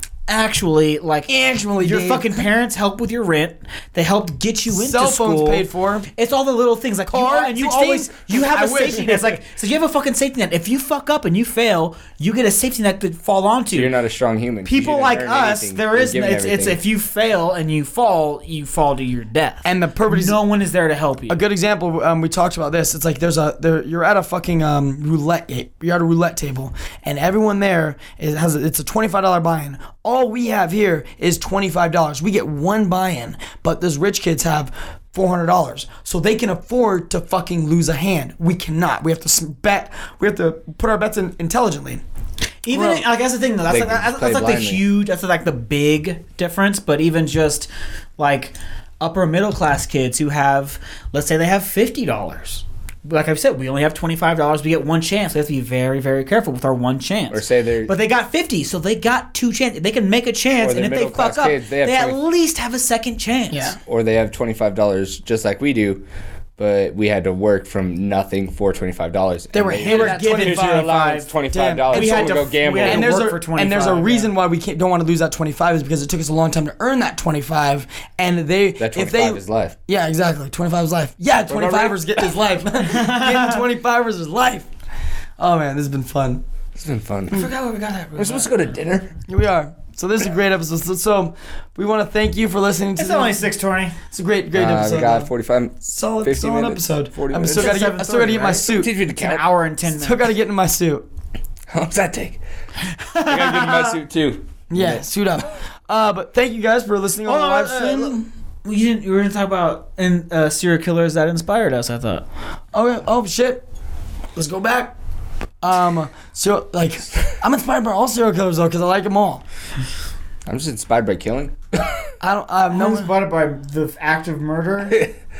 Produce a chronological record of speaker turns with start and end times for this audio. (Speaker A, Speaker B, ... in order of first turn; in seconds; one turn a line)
Speaker A: 0.3-1.3
Speaker B: 1.3-2.5
Speaker A: 1.8-13.9
Speaker B: 4.7-6.1
Speaker B: 7.1-9.3
Speaker C: 13.7-16.8
Speaker A: 14.6-21.4
Speaker B: 19.6-20.4
Speaker B: 21.3-42.0
Speaker A: 42.6-63.7
Speaker B: 42.7-43.0
Speaker C: 43.7-44.8
Speaker C: 57.3-57.9
Speaker C: 60.6-62.2
Speaker B: 63.5-63.8
Speaker C: 63.9-66.0
Speaker C: 66.6-73.2
Speaker B: 69.5-84.7
Speaker A: 69.8-71.3
Speaker A: 71.9-74.3
Speaker C: 78.8-79.8
Speaker C: 81.5-82.0
Speaker A: 82.8-83.6
Speaker B: 85.4-86.4
Speaker C: 86.7-87.5
Speaker B: 87.3-88.2
Speaker A: 87.5-88.4
Speaker C: 88.1-89.1
Speaker B: 89.3-93.4
Speaker A: 93.0-93.9
Speaker B: 94.1-95.3
Speaker C: 94.5-97.8
Speaker B: 95.8-98.9
Speaker A: 97.5-100.3
Speaker C: 98.7-99.5
Speaker B: 99.9-101.0
Speaker C: 101.7-102.4
Speaker A: 102.9-104.0
Speaker C: 103.2-105.0
Speaker B: 104.7-108.3
Speaker A: 107.2-112.2
Speaker B: 112.7-113.6
Speaker B: 114.3-114.9
Speaker B: 115.6-119.4
Speaker C: 120.5-122.0
Speaker B: 122.2-123.1
Speaker A: 122.7-125.1